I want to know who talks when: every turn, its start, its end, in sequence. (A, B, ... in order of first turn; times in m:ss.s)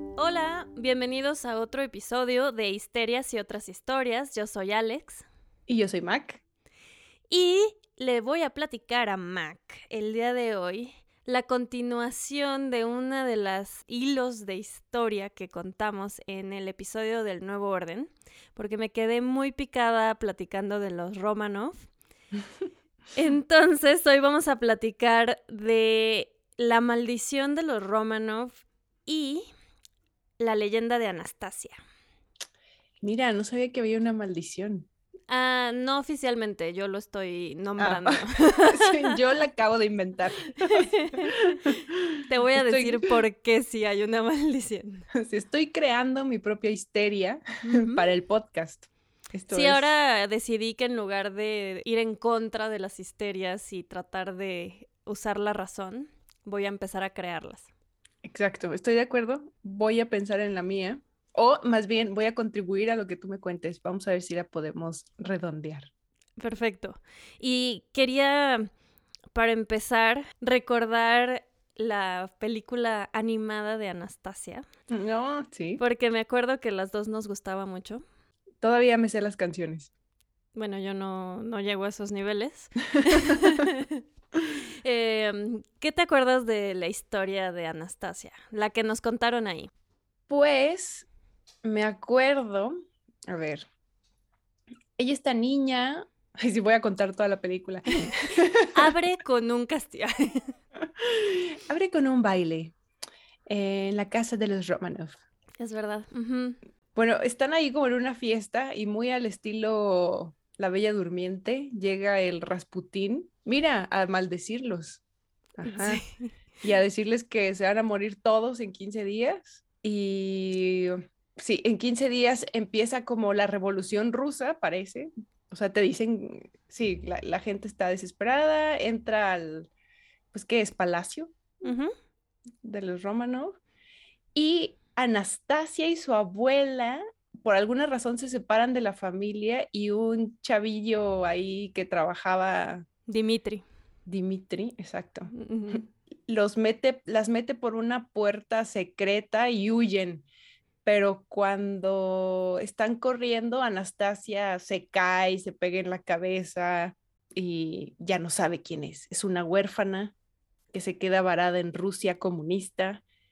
0:00.2-0:05.2 A
0:05.7-0:06.4 B
0:07.3-0:21.9 A
0:23.2-0:29.5 A
0:30.4-0:31.8 A
0:33.0-0:34.9 B
0:35.3-0:39.2 A
0:37.8-0:43.1 B
0:40.6-0:45.1 A
0:45.1-0:49.9 B
0:47.6-0:48.0 A
0:49.5-0:57.7 A
0:58.2-1:05.9 B
1:06.4-1:08.7 A
1:09.3-1:14.6 A
1:14.9-1:15.8 B
1:15.8-1:18.0 A
1:18.6-1:19.9 B
1:20.6-1:24.0 A
1:23.0-1:23.5 B
1:24.8-1:29.7 A
1:30.3-1:31.1 B
1:31.6-1:32.8 B
1:33.3-1:33.7 B
1:35.0-1:38.9 B
1:38.0-1:40.5 A
1:40.8-1:42.8 B
1:43.5-1:45.2 B
1:45.6-1:46.6 A
1:47.0-1:55.0 B
1:55.6-1:56.0 B
1:55.6-1:56.3 A
1:56.6-2:09.7 B
2:10.3-2:11.4 B
2:11.6-2:11.9 A
2:12.6-2:13.6 B
2:14.4-2:22.9 B
2:23.1-2:23.6 A
2:24.1-2:30.2 B
2:25.3-2:25.9 A
2:30.8-2:40.1 B
2:40.7-2:43.0 B